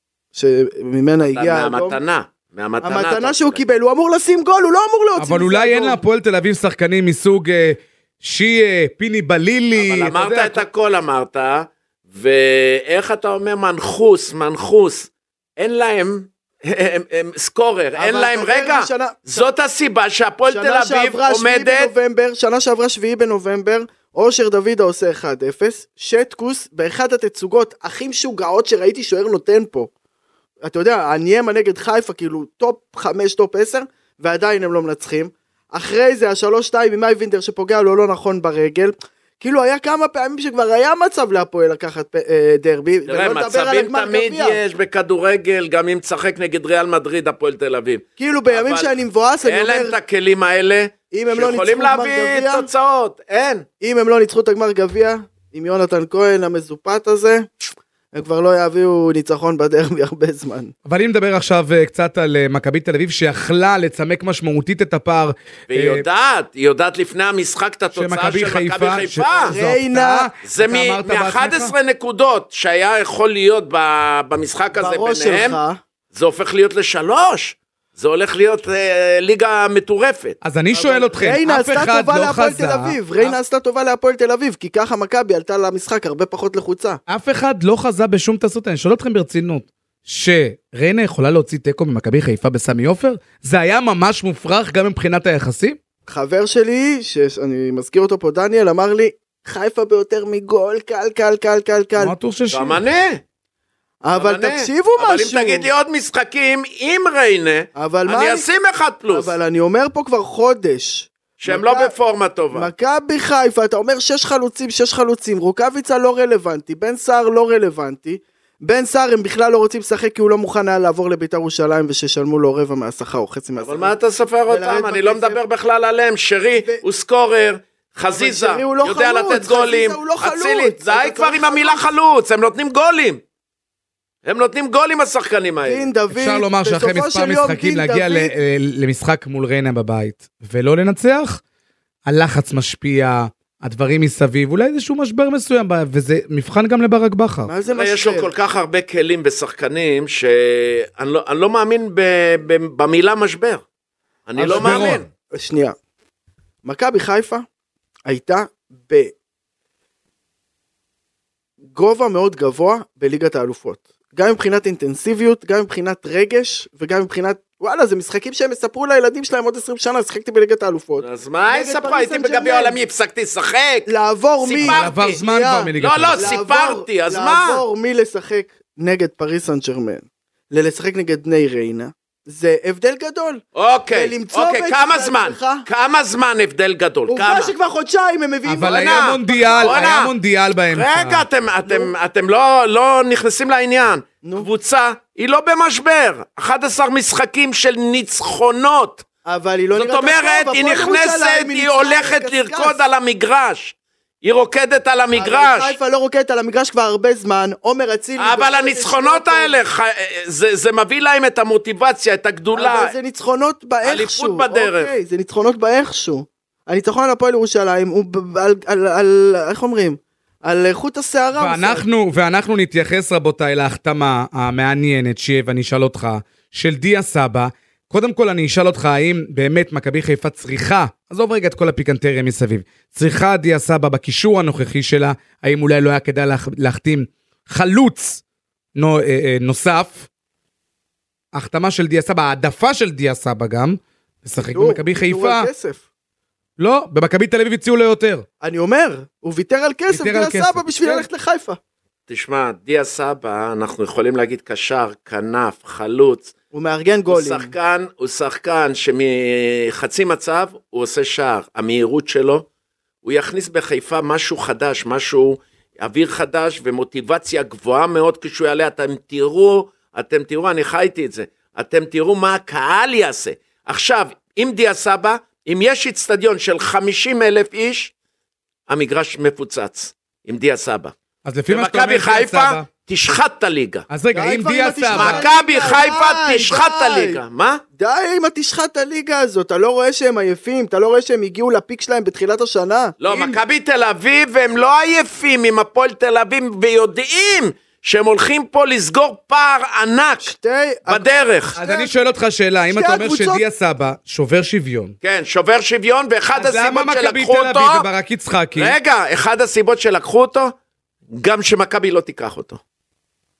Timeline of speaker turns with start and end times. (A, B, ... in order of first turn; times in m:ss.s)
0:00.3-0:02.0 A
0:01.3-0:03.6 B
0:02.8-0:06.0 A
0:05.2-0:10.6 C
0:09.8-0:21.9 B
0:18.0-0:19.4 A
0:20.5-0:29.9 A
0:30.6-0:44.6 A
0:43.1-0:48.9 B
0:48.2-0:50.0 A
0:49.4-0:53.6 B
0:51.1-0:52.7 A
0:53.8-0:57.5 A
0:58.1-1:00.7 A
1:00.9-1:06.0 C
1:05.7-1:09.6 B
1:07.9-1:11.7 C
1:09.3-1:10.3 A
1:10.4-1:15.6 B
1:14.8-1:15.8 A
1:16.1-1:20.4 B
1:20.4-1:23.4 C
1:20.7-1:27.0 A
1:27.1-1:35.8 C
1:36.1-1:42.1 A
1:42.0-1:42.8 C
1:42.5-1:43.2 B
1:44.0-1:45.7 A
1:44.1-1:49.3 B
1:47.8-1:48.4 A
1:49.1-1:51.9 A
1:51.4-1:52.7 B
1:52.5-2:03.9 A
2:03.6-2:13.2 B
2:04.5-2:05.4 A
2:06.5-2:06.8 A
2:08.2-2:11.9 A
2:14.2-2:15.9 B
2:15.6-2:18.3 A
2:16.1-2:21.4 C
2:22.1-2:27.5 C
2:27.4-2:28.3 A
2:27.7-2:33.6 B
2:34.3-2:35.1 B
2:34.4-2:35.8 A
2:34.4-2:35.1 C
2:36.6-2:37.5 A
2:38.1-2:39.1 A
2:41.6-2:52.8 A
2:51.0-2:55.2 B
2:53.9-3:05.7 A
2:54.6-2:56.2 C
2:55.8-2:57.6 B
3:03.6-3:07.5 B
3:07.1-3:10.0 A
3:08.5-3:11.2 C
3:08.6-3:10.1 B
3:10.7-3:19.0 B
3:11.7-3:11.9 A
3:19.3-3:22.8 A
3:19.8-3:25.8 B
3:25.2-3:29.6 A
3:28.2-3:32.9 B
3:32.5-3:41.9 A
3:33.8-3:35.0 B
3:41.4-3:58.2 C
3:58.8-4:00.1 C
4:01.3-4:05.5 C
4:04.4-4:05.8 A
4:06.6-4:08.2 C
4:08.4-4:11.6 A
4:09.9-4:11.1 C
4:12.1-4:16.3 B
4:16.5-4:17.5 A
4:17.1-4:22.4 B
4:23.0-4:37.9 B
4:38.7-4:40.9 B
4:41.2-4:42.7 C
4:41.5-4:43.9 B
4:43.9-4:45.3 C
4:44.1-4:47.2 A
4:44.9-4:47.6 B
4:47.8-4:53.0 A
4:53.0-5:00.3 B
4:53.1-4:53.4 C
5:00.2-5:01.9 A
5:00.9-5:01.6 B
5:01.6-5:04.9 C
5:02.7-5:03.4 A
5:05.0-5:07.9 B
5:06.3-5:08.8 C
5:08.6-5:10.5 B
5:11.2-5:12.6 B